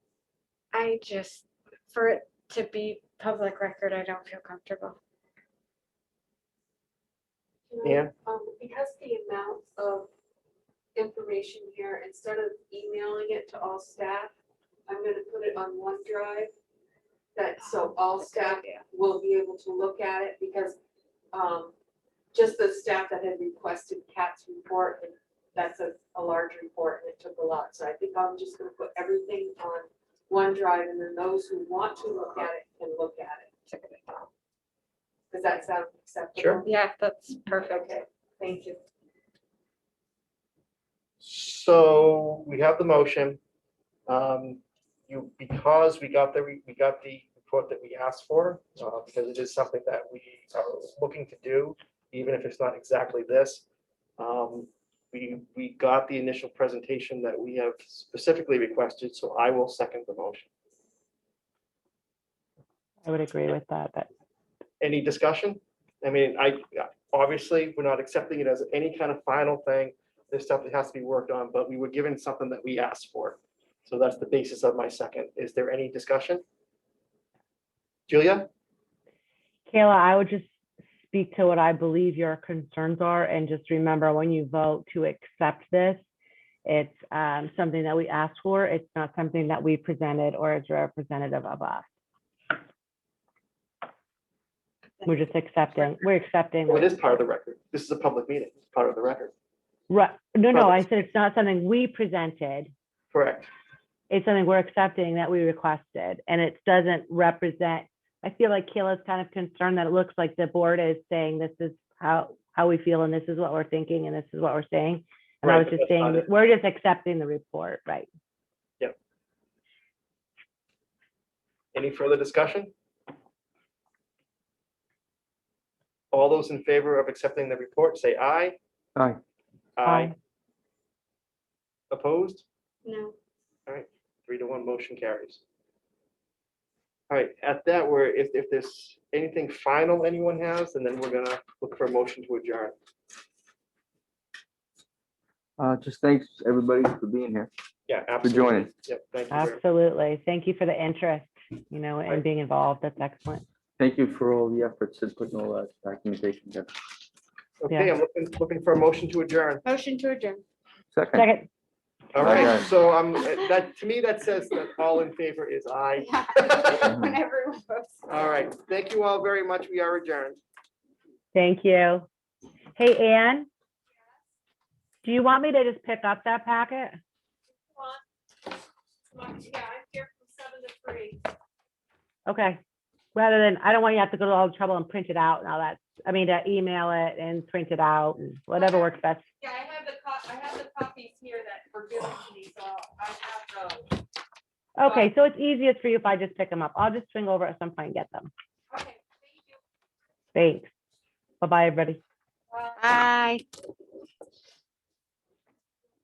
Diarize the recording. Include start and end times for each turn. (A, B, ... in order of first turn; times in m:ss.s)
0:00.7-0:05.0 A
0:07.7-0:10.1 B
0:07.8-0:08.1 C
0:11.0-0:14.3 B
0:14.9-0:16.5 B
0:17.4-0:20.8 B
0:17.6-0:18.8 A
0:21.3-0:21.7 B
0:22.3-0:33.6 B
0:33.7-0:34.2 A
0:35.3-0:36.7 B
0:36.4-0:36.6 C
0:36.6-0:38.0 A
0:37.6-0:38.8 B
0:41.2-0:43.4 C
0:44.1-0:53.6 C
0:54.2-1:00.5 C
1:03.0-1:04.1 D
1:04.8-1:16.4 C
1:18.1-1:18.5 C
1:19.7-1:20.5 D
1:21.1-1:26.0 D
1:26.6-1:31.9 D
1:35.0-1:36.9 D
1:36.7-1:39.3 C
1:39.9-1:42.7 D
1:40.5-1:41.0 C
1:43.1-1:43.5 C
1:44.1-1:58.1 D
1:55.4-1:56.3 C
2:01.7-2:02.7 C
2:06.1-2:08.6 C
2:09.8-2:10.1 C
2:09.8-2:10.1 D
2:11.9-2:12.4 C
2:12.8-2:13.2 A
2:13.7-2:15.4 C
2:17.1-2:22.8 C
2:25.6-2:27.5 E
2:27.9-2:29.6 C
2:28.2-2:28.7 E
2:29.3-2:33.4 D
2:33.8-2:36.7 E
2:37.6-2:39.6 C
2:39.6-2:40.4 A
2:40.9-2:41.3 E
2:41.2-2:41.5 D
2:42.1-2:46.9 C
2:42.2-2:42.7 E
2:46.0-2:48.2 A
2:46.8-2:47.1 E
2:48.1-2:50.4 C
2:51.3-2:52.1 D
2:52.8-2:53.5 D
2:55.0-2:57.0 D
2:57.7-2:58.0 B
2:59.1-3:01.2 B
3:02.3-3:02.6 D
3:03.1-3:09.2 D
3:08.5-3:08.9 B
3:09.4-3:14.0 B
3:14.8-3:18.3 D
3:14.8-3:15.1 B
3:18.7-3:19.6 B
3:20.3-3:20.7 D
3:21.4-3:22.0 D
3:22.5-3:22.8 B
3:22.8-3:23.4 A